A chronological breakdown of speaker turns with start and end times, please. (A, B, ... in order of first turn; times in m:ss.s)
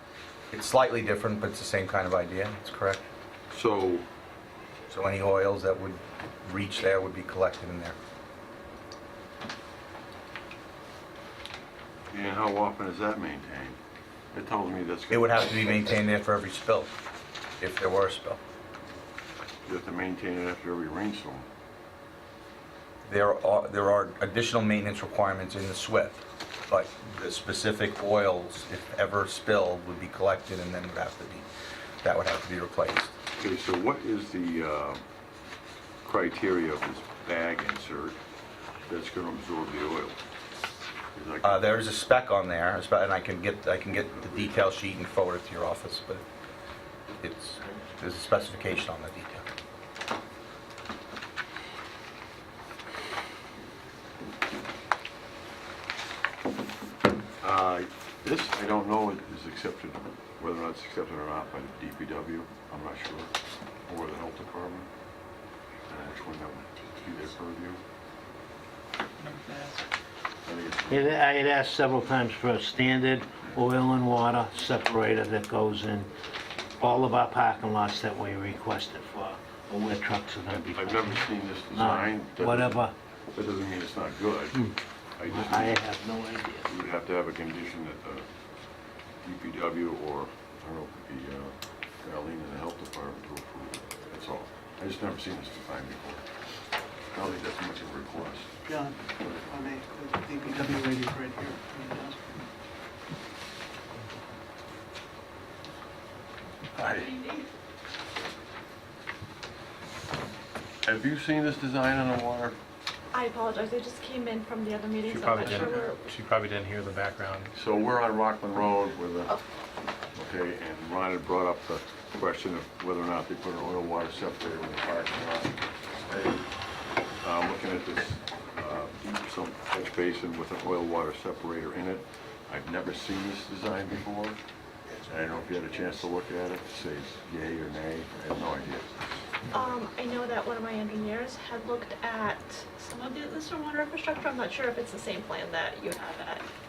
0:00.5-0:03.0 A
0:03.5-0:04.1 B
0:04.9-0:08.0 A
0:12.1-0:13.8 B
0:14.3-0:16.0 B
0:15.1-0:16.9 A
0:17.6-0:18.4 A
0:19.7-0:21.5 B
0:23.1-0:31.5 A
0:32.0-0:33.1 A
0:33.4-0:35.0 B
0:36.0-0:38.2 B
0:38.9-0:40.2 B
0:41.2-0:41.8 B
0:41.4-0:46.2 A
0:44.1-0:44.5 B
0:47.2-0:49.5 A
0:57.4-1:03.3 B
1:03.9-1:04.9 B
1:05.9-1:07.8 B
1:10.4-1:11.1 B
1:10.9-1:16.1 C
1:16.8-1:22.9 C
1:20.5-1:22.8 B
1:23.3-1:25.8 B
1:25.3-1:26.7 C
1:26.6-1:28.3 B
1:29.2-1:36.2 B
1:37.1-1:38.5 B
1:38.7-1:39.0 D
1:39.5-1:42.3 D
1:46.8-1:47.3 B
1:50.8-1:52.6 B
1:53.1-1:56.0 E
1:55.1-1:57.5 F
1:57.5-1:59.4 B
2:00.2-2:06.5 B
2:07.2-2:14.4 B
2:15.1-2:18.9 B
2:19.5-2:26.5 E